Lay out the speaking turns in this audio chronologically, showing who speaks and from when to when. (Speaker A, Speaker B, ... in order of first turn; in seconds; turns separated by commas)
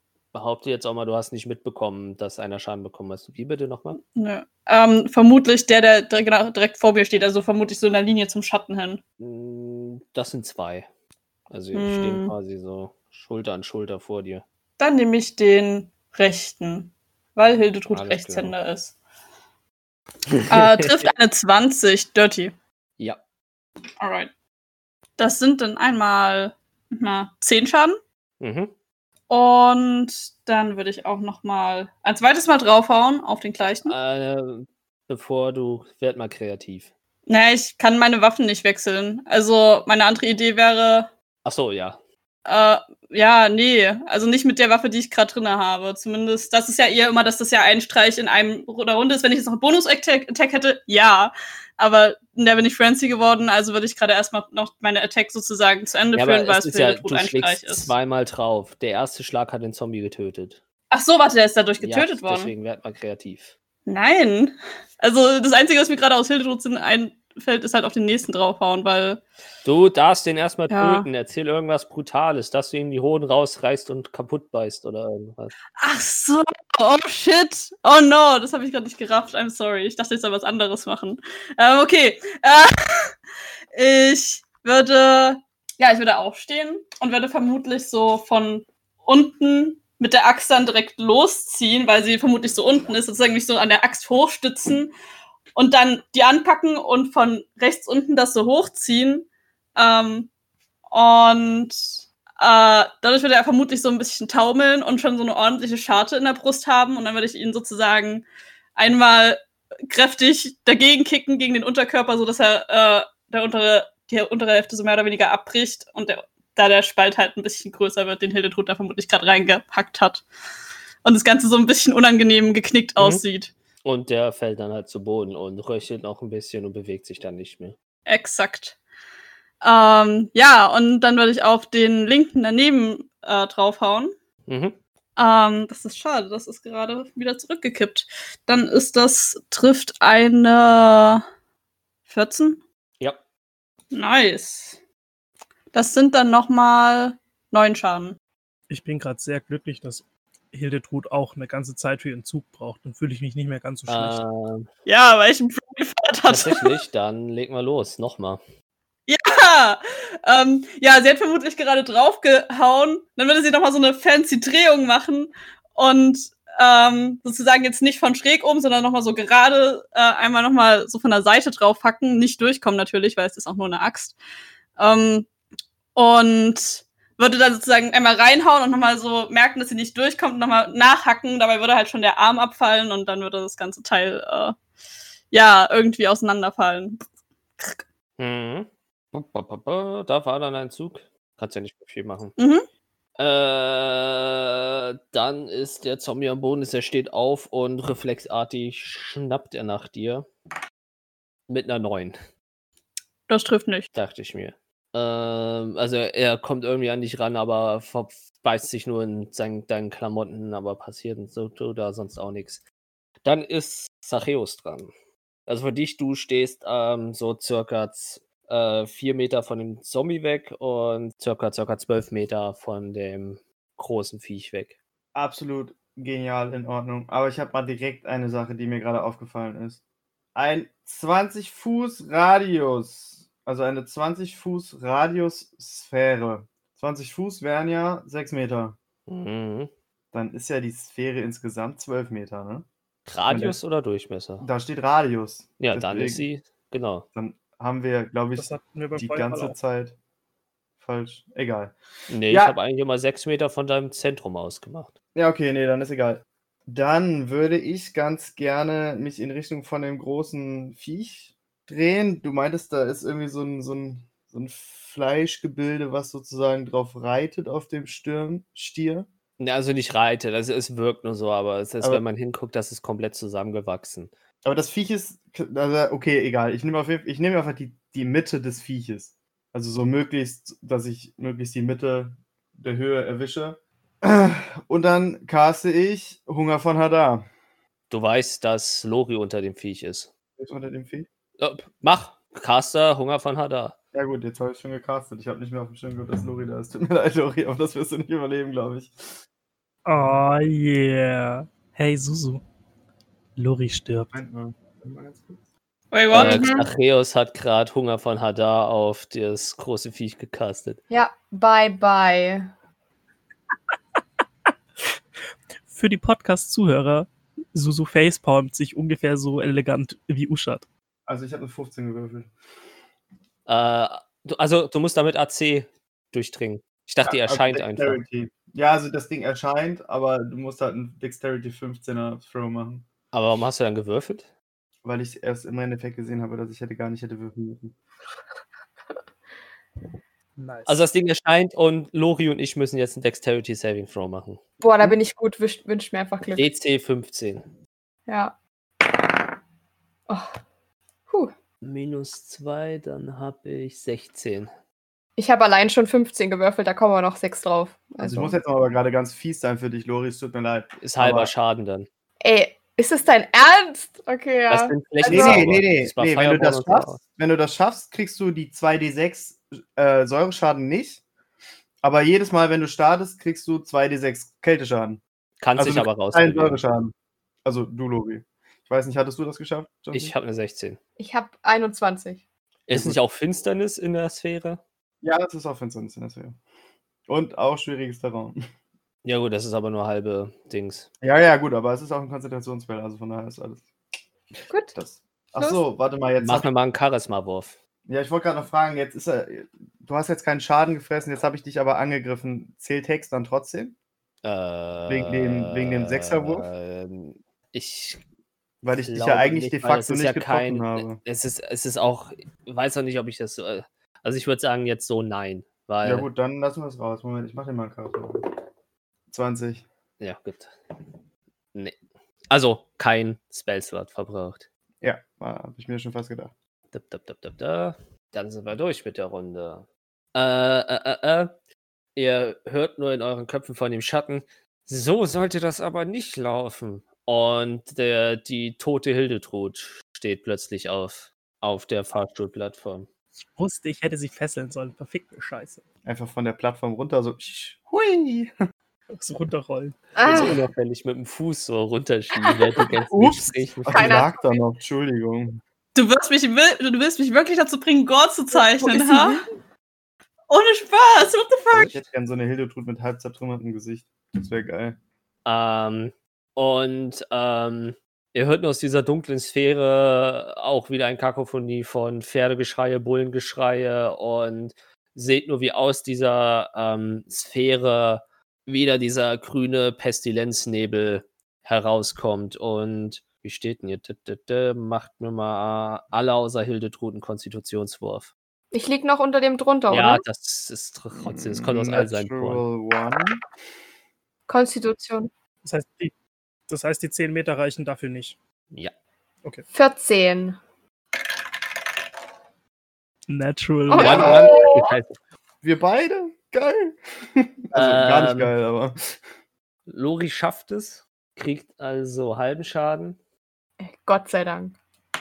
Speaker A: 0.3-4.0, Speaker B: 4.0-9.0, Speaker A: 9.2-10.9, Speaker A: 11.5-14.4, Speaker B: 11.7-12.3, Speaker B: 14.8-19.0, Speaker A: 17.9-18.5, Speaker A: 20.3-21.1, Speaker B: 20.5-22.5, Speaker B: 24.0-24.3, Speaker B: 25.2-28.0, Speaker A: 28.4-28.7, Speaker B: 29.3-34.0, Speaker A: 33.9-36.9, Speaker B: 37.3-41.1, Speaker A: 41.5-42.0, Speaker B: 42.5-57.9, Speaker A: 56.1-60.6, Speaker B: 60.9-62.5, Speaker A: 61.8-63.5, Speaker B: 63.9-69.2, Speaker A: 69.7-75.5, Speaker B: 70.7-71.1, Speaker B: 75.8-83.1, Speaker B: 83.7-94.9, Speaker B: 95.5-100.3, Speaker B: 100.9-108.2, Speaker B: 108.8-120.2, Speaker B: 121.0-123.5, Speaker A: 123.0-123.2, Speaker A: 123.8-127.8, Speaker B: 128.1-128.8, Speaker B: 129.6-134.1, Speaker A: 134.5-134.8, Speaker B: 135.2-141.2, Speaker B: 142.1-142.6, Speaker B: 143.9-144.8, Speaker B: 145.7-148.2, Speaker C: 148.7-154.2, Speaker A: 153.9-154.7, Speaker B: 154.9-156.8, Speaker A: 156.3-158.4, Speaker B: 159.1-174.2, Speaker B: 174.8-175.3, Speaker B: 175.9-184.6, Speaker B: 185.3-187.0, Speaker A: 188.2-192.4, Speaker B: 192.4-192.7, Speaker A: 193.2-200.3, Speaker A: 201.5-202.2, Speaker B: 203.3-203.9, Speaker A: 203.9-212.6, Speaker A: 213.2-214.9, Speaker A: 215.5-224.8, Speaker D: 225.2-229.8, Speaker D: 230.3-238.8, Speaker A: 239.1-239.7, Speaker D: 240.1-242.7, Speaker A: 243.1-244.5, Speaker D: 243.3-243.6, Speaker D: 244.4-246.2, Speaker A: 245.6-247.1, Speaker D: 247.2-249.9, Speaker C: 248.4-249.6, Speaker D: 250.8-251.8, Speaker A: 252.1-254.9, Speaker D: 252.3-252.6, Speaker D: 255.2-269.1, Speaker A: 269.4-274.1, Speaker D: 274.4-287.3, Speaker A: 287.9-290.1, Speaker D: 290.4-291.1, Speaker A: 291.4-293.8, Speaker D: 293.9-299.2, Speaker C: 299.9-302.4, Speaker C: 303.4-304.1, Speaker D: 304.1-305.4, Speaker B: 305.9-306.6, Speaker A: 306.1-310.8, Speaker E: 306.1-306.7, Speaker E: 310.9-312.5, Speaker C: 315.7-320.7, Speaker D: 321.1-322.3, Speaker A: 323.5-328.0, Speaker D: 327.1-332.9, Speaker A: 333.1-334.3, Speaker D: 334.8-337.8, Speaker C: 340.4-340.8, Speaker A: 340.7-344.9, Speaker E: 344.6-346.5, Speaker A: 346.4-347.5, Speaker E: 348.1-348.3, Speaker E: 350.1-350.4, Speaker A: 351.6-354.5, Speaker E: 355.2-358.4, Speaker D: 358.0-361.3, Speaker A: 360.8-361.9, Speaker E: 362.2-365.5, Speaker A: 364.5-367.0, Speaker D: 365.1-371.0, Speaker D: 371.8-375.0, Speaker A: 375.4-376.6, Speaker D: 375.6-376.9, Speaker D: 377.4-380.1, Speaker A: 379.9-380.8, Speaker E: 381.0-382.2, Speaker A: 382.7-384.6, Speaker D: 382.7-383.0, Speaker D: 385.0-386.4, Speaker D: 387.1-388.4, Speaker A: 389.1-390.9, Speaker D: 391.0-393.7, Speaker E: 394.5-394.8, Speaker D: 394.8-396.5, Speaker E: 395.4-395.6, Speaker A: 396.2-397.6, Speaker D: 397.9-403.8, Speaker A: 404.2-408.0, Speaker D: 404.9-406.5, Speaker D: 408.6-411.0, Speaker A: 408.8-416.1, Speaker D: 415.8-418.3, Speaker D: 419.1-419.6, Speaker A: 420.0-420.9, Speaker A: 422.3-424.5, Speaker D: 424.8-426.3, Speaker A: 426.7-431.3, Speaker A: 432.0-442.9, Speaker C: 443.4-445.6, Speaker D: 445.9-448.3, Speaker C: 448.9-449.8, Speaker E: 450.0-450.4, Speaker A: 450.1-454.1, Speaker E: 452.3-452.6, Speaker D: 452.9-455.4, Speaker E: 453.7-454.3, Speaker B: 455.8-459.2, Speaker E: 458.3-459.3, Speaker B: 460.3-461.8, Speaker D: 461.5-464.8, Speaker A: 465.2-488.1, Speaker E: 488.5-490.0, Speaker A: 489.7-492.5, Speaker D: 491.0-493.2, Speaker E: 494.3-495.1, Speaker C: 495.4-495.9, Speaker C: 496.5-498.2, Speaker E: 499.5-500.4, Speaker C: 503.1-504.3, Speaker E: 503.7-504.7, Speaker A: 503.7-505.0, Speaker D: 504.0-504.2, Speaker D: 505.4-509.0, Speaker A: 507.5-508.3, Speaker A: 509.7-513.0, Speaker E: 513.6-514.6